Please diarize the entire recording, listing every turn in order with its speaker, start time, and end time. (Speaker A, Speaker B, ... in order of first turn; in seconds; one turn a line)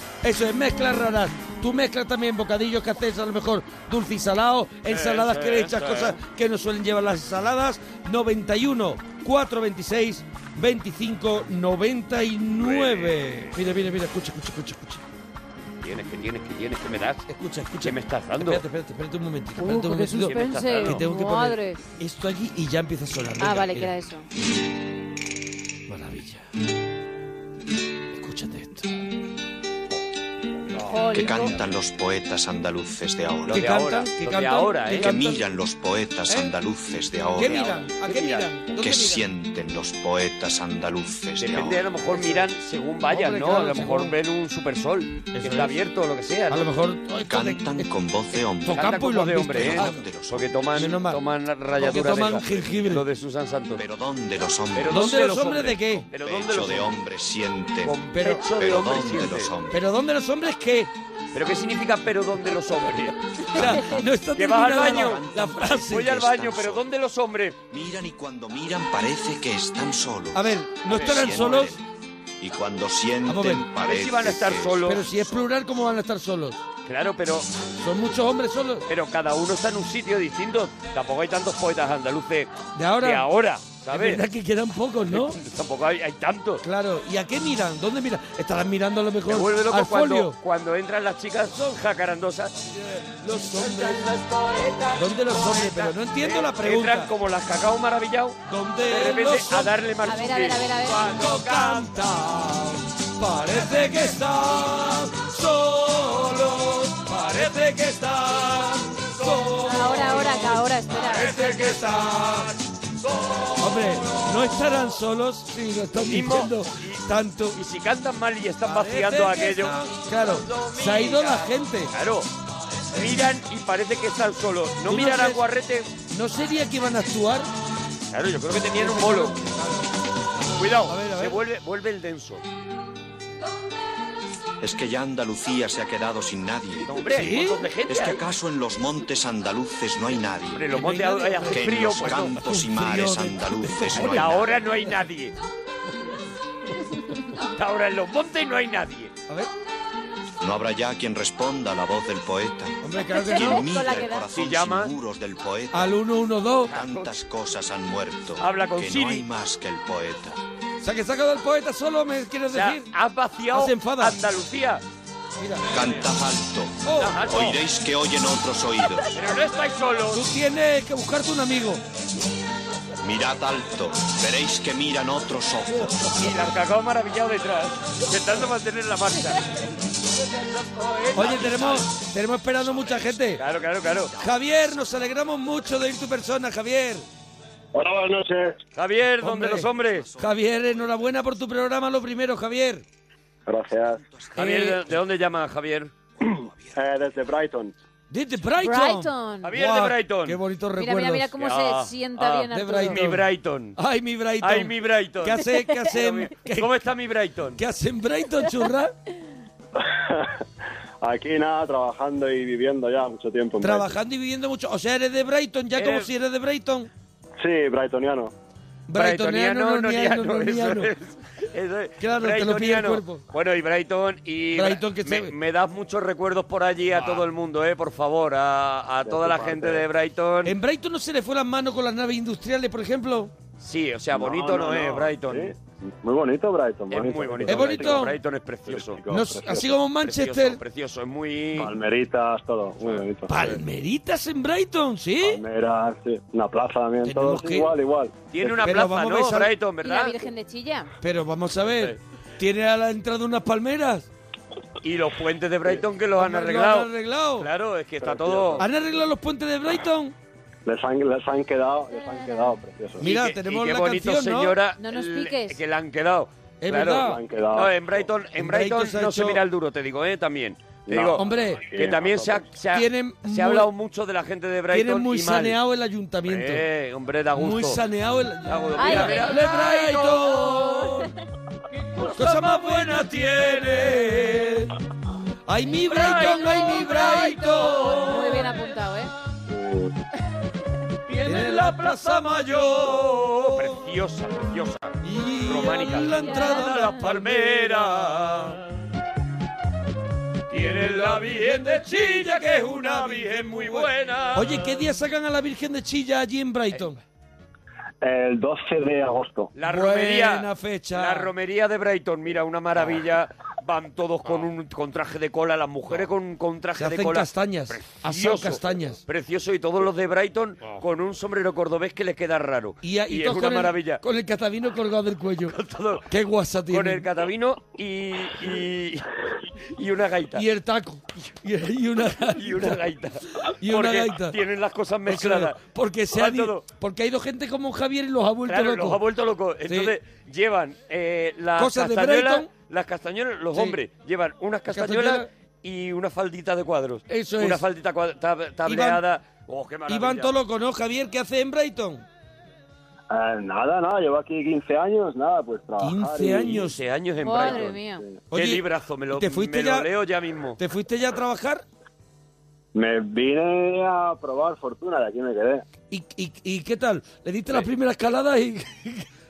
Speaker A: 0.2-15.0
Speaker B: 4.9-6.2
Speaker B: 12.6-13.6
Speaker B: 15.8-17.2
Speaker A: 17.3-23.9
Speaker B: 17.8-18.6
Speaker C: 19.6-21.8
Speaker B: 20.2-21.0
Speaker C: 23.4-24.2
Speaker A: 25.9-26.4
Speaker A: 28.1-28.9
Speaker C: 30.9-31.5
Speaker D: 31.1-33.7
Speaker B: 33.5-35.1
Speaker A: 33.5-35.4
Speaker D: 34.9-37.8
Speaker A: 37.4-39.2
Speaker B: 37.4-38.6
Speaker D: 38.8-41.9
Speaker B: 41.4-46.7
Speaker A: 42.1-42.5
Speaker A: 43.1-44.1
Speaker A: 45.3-45.8
Speaker A: 46.5-47.9
Speaker D: 47.3-50.5
Speaker A: 48.6-50.0
Speaker B: 48.7-53.8
Speaker A: 50.7-51.2
Speaker A: 51.8-53.0
Speaker D: 53.8-55.1
Speaker B: 54.8-57.0
Speaker A: 54.9-56.0
Speaker D: 56.1-58.0
Speaker B: 57.8-59.5
Speaker A: 58.1-58.4
Speaker D: 58.6-59.8
Speaker A: 59.7-60.9
Speaker B: 61.3-63.8
Speaker A: 63.5-66.2
Speaker B: 64.3-67.6
Speaker D: 64.8-66.9
Speaker D: 67.7-71.8
Speaker A: 70.3-71.7
Speaker B: 70.9-71.4
Speaker D: 72.4-75.4
Speaker A: 73.3-73.7
Speaker B: 73.8-75.0
Speaker A: 74.8-76.6
Speaker B: 76.8-77.5
Speaker A: 77.8-78.8
Speaker B: 78.9-82.5
Speaker A: 82.7-83.3
Speaker B: 83.0-84.2
Speaker A: 83.9-85.4
Speaker B: 85.1-86.6
Speaker A: 86.6-90.4
Speaker B: 89.3-92.6
Speaker A: 92.8-94.1
Speaker B: 93.5-101.9
Speaker A: 94.9-97.1
Speaker A: 98.5-99.7
Speaker C: 100.0-101.2
Speaker A: 101.0-112.5
Speaker B: 109.2-109.6
Speaker C: 109.6-111.3
Speaker B: 111.1-114.1
Speaker A: 113.6-117.6
Speaker B: 116.0-122.3
Speaker A: 118.6-121.9
Speaker B: 122.9-125.9
Speaker A: 124.9-125.4
Speaker A: 126.1-127.5
Speaker B: 128.1-129.3
Speaker A: 128.8-129.9
Speaker B: 130.6-132.4
Speaker A: 130.8-131.4
Speaker D: 134.6-137.0
Speaker B: 136.9-138.2
Speaker A: 137.1-137.6
Speaker D: 137.9-140.7
Speaker B: 140.5-142.3
Speaker A: 140.8-144.4
Speaker D: 141.5-144.5
Speaker B: 143.9-145.3
Speaker B: 147.4-149.1
Speaker D: 150.4-152.8
Speaker A: 152.8-153.6
Speaker C: 153.2-154.2
Speaker D: 153.3-156.0
Speaker B: 154.3-154.9
Speaker A: 155.7-156.7
Speaker B: 156.7-157.1
Speaker D: 156.7-160.4
Speaker B: 158.4-159.2
Speaker A: 160.8-162.9
Speaker B: 162.5-164.8
Speaker A: 163.5-164.2
Speaker A: 165.4-165.8
Speaker D: 165.7-169.1
Speaker A: 166.8-167.2
Speaker B: 167.0-167.6
Speaker B: 169.1-170.3
Speaker A: 170.1-171.8
Speaker D: 173.0-176.1
Speaker B: 176.2-179.6
Speaker B: 180.6-181.8
Speaker A: 181.1-183.4
Speaker D: 182.6-183.2
Speaker B: 183.4-184.1
Speaker A: 184.2-187.0
Speaker E: 187.7-188.6
Speaker B: 188.8-190.1
Speaker A: 189.2-192.8
Speaker D: 189.9-190.8
Speaker E: 193.4-194.0
Speaker D: 194.1-194.7
Speaker B: 194.3-195.9
Speaker E: 196.2-197.7
Speaker A: 198.1-201.3
Speaker C: 198.6-199.5
Speaker B: 199.4-200.4
Speaker C: 200.8-203.0
Speaker B: 201.4-203.8
Speaker A: 202.5-206.7
Speaker B: 204.4-207.6
Speaker A: 207.6-208.9
Speaker E: 209.8-210.4
Speaker E: 211.0-213.9
Speaker A: 213.6-216.9
Speaker B: 215.8-216.1
Speaker E: 217.4-218.3
Speaker A: 218.9-220.9
Speaker B: 218.9-230.5
Speaker A: 222.0-223.2
Speaker A: 224.5-225.3
Speaker E: 229.0-229.8
Speaker A: 230.4-233.3
Speaker B: 233.6-235.5
Speaker E: 234.1-238.1
Speaker B: 236.9-239.0
Speaker A: 237.5-238.1
Speaker E: 238.7-239.7
Speaker A: 239.1-240.6
Speaker B: 240.0-241.7
Speaker E: 241.6-243.5
Speaker A: 243.3-245.4
Speaker E: 245.2-248.2
Speaker A: 247.0-247.8
Speaker B: 248.3-250.2
Speaker A: 248.6-249.5
Speaker C: 249.8-250.9
Speaker A: 251.0-254.1
Speaker B: 251.7-252.0
Speaker B: 254.8-258.6
Speaker A: 256.2-257.5
Speaker E: 258.0-258.7
Speaker A: 258.6-260.1
Speaker E: 260.6-263.0
Speaker C: 262.0-262.5
Speaker A: 263.0-264.6
Speaker B: 263.0-275.6
Speaker C: 264.8-265.6
Speaker A: 266.6-267.2
Speaker E: 266.9-268.1
Speaker A: 268.4-269.4
Speaker E: 270.9-272.5
Speaker A: 271.1-271.6
Speaker A: 272.7-273.7
Speaker A: 274.7-276.6
Speaker B: 276.2-277.8
Speaker A: 277.3-281.1
Speaker B: 278.4-280.1
Speaker C: 278.8-281.1
Speaker A: 282.0-284.7
Speaker A: 285.5-288.5
Speaker B: 285.9-288.1
Speaker C: 285.9-289.1
Speaker E: 289.5-289.9
Speaker A: 291.2-293.8
Speaker B: 292.9-298.6
Speaker A: 295.0-298.5
Speaker C: 296.0-297.0
Speaker B: 300.5-304.6
Speaker A: 300.7-307.0
Speaker E: 308.0-309.5
Speaker B: 309.5-324.0
Speaker A: 309.6-311.3
Speaker A: 316.8-319.0
Speaker A: 322.8-325.5
Speaker B: 325.5-326.1
Speaker A: 326.1-327.1
Speaker B: 326.7-329.1
Speaker B: 329.7-330.4
Speaker A: 330.3-332.8
Speaker B: 332.3-335.6
Speaker A: 333.6-334.4
Speaker A: 335.1-339.0
Speaker B: 336.1-336.6
Speaker B: 338.5-350.3
Speaker A: 339.7-339.9
Speaker A: 341.6-342.5
Speaker A: 344.7-345.3
Speaker A: 347.1-347.6
Speaker A: 348.6-349.0
Speaker A: 349.9-352.0
Speaker E: 353.1-356.7
Speaker A: 355.8-356.8
Speaker B: 356.5-357.8
Speaker C: 357.2-358.0
Speaker E: 357.4-358.2
Speaker A: 358.3-359.9
Speaker B: 358.3-360.6
Speaker A: 360.6-361.6
Speaker E: 362.7-365.6
Speaker A: 365.9-369.1